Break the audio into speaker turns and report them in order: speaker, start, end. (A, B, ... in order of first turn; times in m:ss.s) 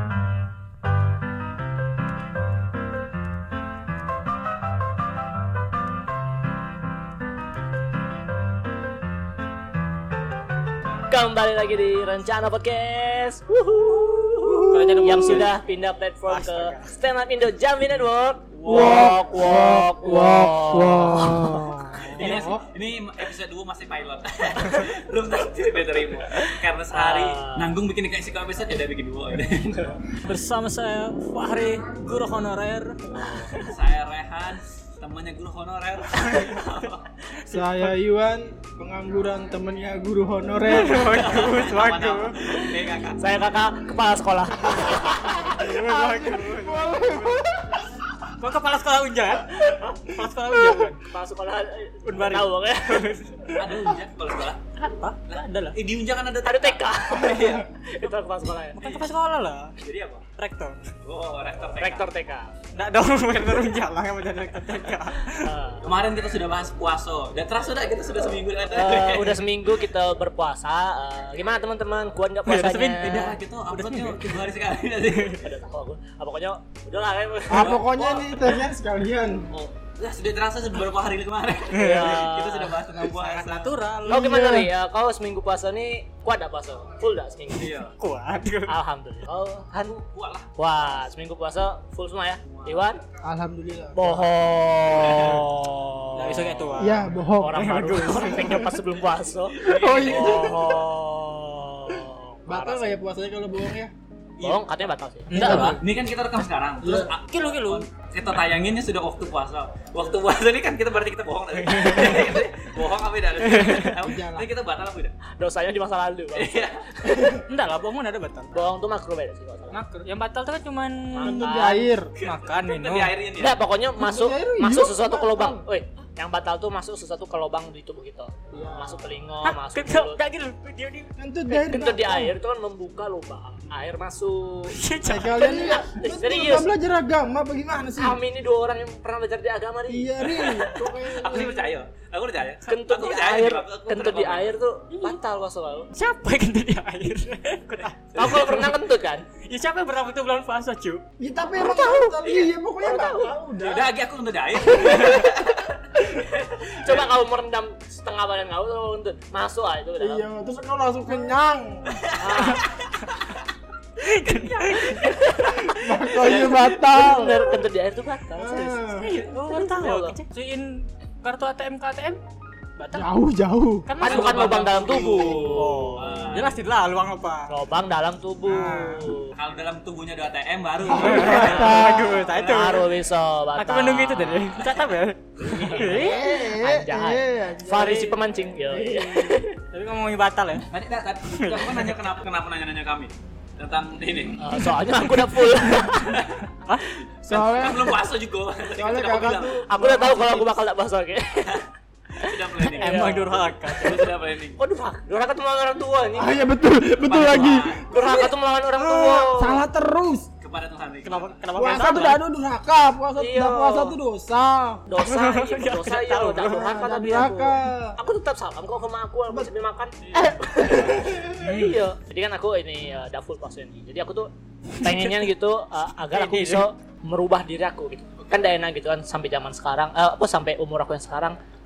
0:11.1-0:21.8 A
0:14.4-0:15.4 B
0:14.7-0:15.5 C
0:16.2-0:16.9 C
0:18.5-0:19.2 D
0:18.6-0:22.6 B
0:22.0-0:29.8 D
0:26.9-0:27.7 A
0:30.2-0:33.0 C
0:33.2-0:33.6 A
0:33.3-0:37.1 D
0:37.4-0:41.0 B
0:37.5-0:37.9 C
0:40.6-0:42.4 C
0:40.8-0:43.4 D
0:43.2-0:45.4 A
0:45.1-0:47.5 C
0:45.2-0:47.8 B
0:48.4-0:51.0 C
0:51.0-0:53.6 A
0:52.0-0:53.4 C
0:53.4-0:54.6 D
0:54.8-0:55.8 C
0:55.7-0:57.7 D
0:56.4-0:58.9 A
0:57.2-0:57.6 B
0:58.7-0:59.7 C
0:59.8-1:00.2 D
1:00.4-1:00.9 C
1:01.0-1:02.1 D
1:01.8-1:02.5 A
1:02.7-1:05.5 C
1:05.4-1:05.9 A
1:05.8-1:09.5 D
1:08.7-1:13.4 A
1:12.4-1:14.4 C
1:13.0-1:15.4 D
1:15.3-1:18.2 A
1:17.5-1:19.5 B
1:17.5-1:18.2 D
1:19.8-1:23.7 D
1:21.7-1:22.2 C
1:21.7-1:22.8 A
1:23.1-1:24.7 C
1:24.0-1:27.8 A
1:24.1-1:24.6 B
1:27.5-1:28.0 D
1:28.0-1:28.7 C
1:28.7-1:30.0 A
1:29.8-1:30.5 D
1:30.6-1:33.0 A
1:32.4-1:32.8 D
1:33.2-1:34.3 B
1:33.9-1:36.8 A
1:34.9-1:35.4 D
1:36.1-1:38.8 C
1:36.8-1:38.1 B
1:37.4-1:43.0 A
1:39.5-1:40.8 D
1:39.6-1:40.8 B
1:41.9-1:43.9 B
1:44.4-1:44.7 D
1:44.4-1:45.7 A
1:45.3-1:45.8 C
1:45.3-1:45.8 B
1:45.4-1:55.2 D
1:46.8-1:47.1 B
1:47.2-1:47.9 C
1:51.6-1:52.3 C
1:53.4-1:54.0 C
1:54.0-1:54.5 B
1:55.3-1:57.4 A
1:56.3-1:56.9 D
1:57.1-1:57.4 B
1:57.5-1:58.5 C
1:58.5-1:59.8 A
1:59.7-2:01.6 C
2:01.1-2:01.9 A
2:01.2-2:02.1 B
2:02.2-2:03.6 D
2:02.2-2:03.1 C
2:03.4-2:10.2 A
2:04.0-2:05.6 B
2:08.5-2:09.0 B
2:09.4-2:11.1 C
2:11.2-2:12.3 B
2:11.5-2:14.8 A
2:14.7-2:15.7 C
2:15.0-2:18.2 B
2:15.3-2:16.7 A
2:18.0-2:20.9 A
2:19.9-2:21.7 B
2:21.0-2:24.5 D
2:22.6-2:25.9 A
2:24.9-2:25.2 C
2:25.9-2:28.7 C
2:28.1-2:29.3 A
2:29.4-2:31.0 C
2:31.2-2:33.9 B
2:31.6-2:33.4 A
2:33.6-2:35.8 D
2:34.7-2:35.4 A
2:36.1-2:40.2 A
2:36.7-2:37.1 D
2:40.0-2:42.1 B
2:42.1-2:42.7 A
2:42.2-2:42.7 D
2:44.0-2:45.6 C
2:44.3-2:48.8 A
2:45.6-2:47.5 B
2:46.0-2:47.2 D
2:48.4-2:49.2 B
2:49.0-2:52.2 C
2:49.4-2:50.2 A
2:52.8-2:53.1 C
2:52.9-2:53.9 B
2:53.8-2:54.5 C
2:54.0-2:56.0 A
2:54.0-2:56.6 D
2:54.9-2:55.5 B
2:55.5-2:57.5 C
2:57.5-2:59.3 A
2:58.4-2:59.1 C
2:59.3-3:02.7 D
3:00.8-3:02.3 B
3:00.9-3:02.9 C
3:01.4-3:04.8 A
3:03.5-3:06.3 C
3:05.4-3:09.6 A
3:05.5-3:05.8 D
3:05.8-3:09.4 B
3:09.7-3:10.7 C
3:10.7-3:14.5 D
3:11.3-3:12.0 C
3:14.4-3:16.3 A
3:16.0-3:16.4 D
3:17.2-3:18.0 B
3:17.3-3:19.6 D
3:18.7-3:20.5 B
3:19.7-3:21.6 A
3:22.2-3:26.4 A
3:22.2-3:23.1 D
3:22.6-3:24.0 C
3:23.7-3:24.6 D
3:26.2-3:27.7 B
3:27.0-3:28.3 D
3:27.9-3:29.6 A
3:28.8-3:30.3 B
3:30.4-3:31.3 D
3:31.0-3:32.2 C
3:31.6-3:34.8 B
3:33.2-3:34.0 A
3:34.8-3:51.4 A
3:35.0-3:36.7 C
3:36.4-3:38.0 B
3:40.0-3:40.5 D
3:40.2-3:41.4 B
3:41.4-3:41.8 C
3:44.8-3:45.3 C
3:46.0-3:46.6 C